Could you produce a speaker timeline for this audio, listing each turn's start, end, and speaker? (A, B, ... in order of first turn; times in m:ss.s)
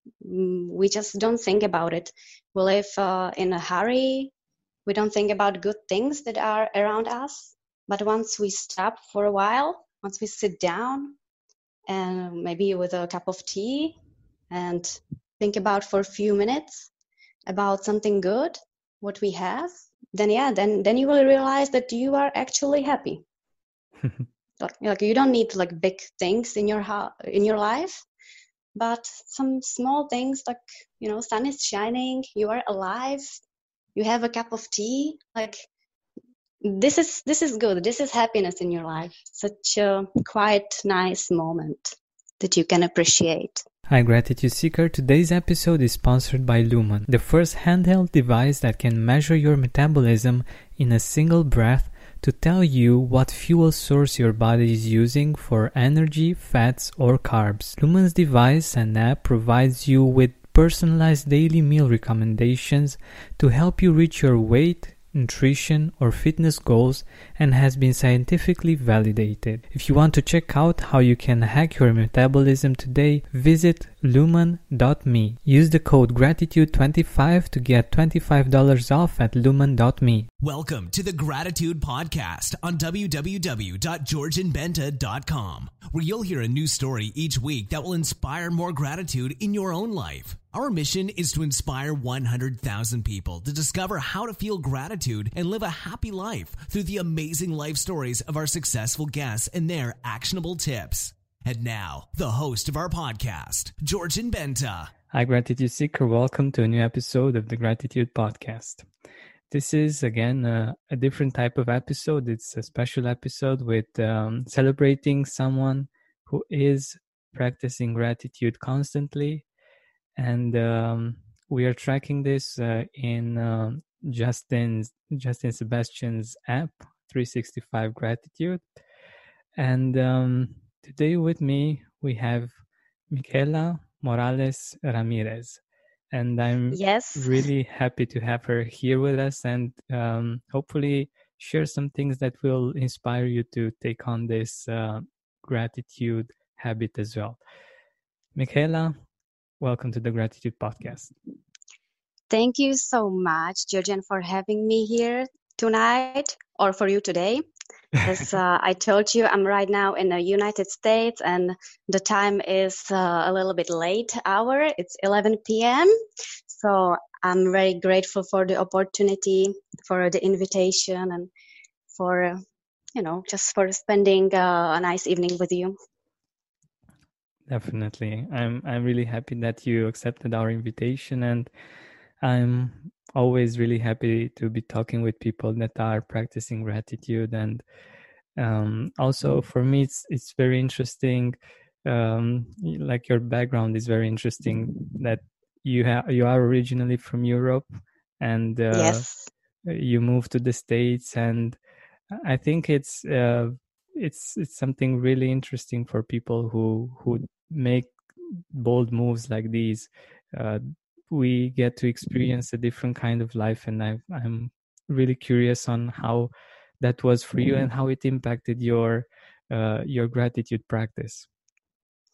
0:00.2-0:04.3 A
0:04.8-0:11.2 A
0:11.9-0:14.0 A
0:14.5-0:16.9 A
0:17.5-0:23.2 A
0:24.6-0:28.0 A
0:28.7-0:33.4 A
0:34.0-0:35.7 A
0:36.6-0:43.6 A
0:43.9-1:20.3 B
1:20.4-1:44.9 C
1:45.1-1:48.8 B
1:49.5-1:59.4 B
2:00.2-2:08.6 B
2:09.6-2:12.5 B
2:13.1-2:15.6 B
2:16.1-2:27.4 B
2:16.7-2:17.4 A
2:28.3-2:28.9 B
2:29.6-2:31.1 B
2:32.3-2:37.4 A
2:38.0-2:45.9 A
2:46.5-2:51.3 A
2:51.9-2:52.4 A
2:53.0-2:55.7 A
2:57.5-3:01.5 B
3:02.2-3:07.6 B
3:08.4-3:17.6 B
3:18.2-3:19.0 B
3:18.7-3:19.3 A
3:19.6-3:21.6 B
3:22.1-3:41.3 B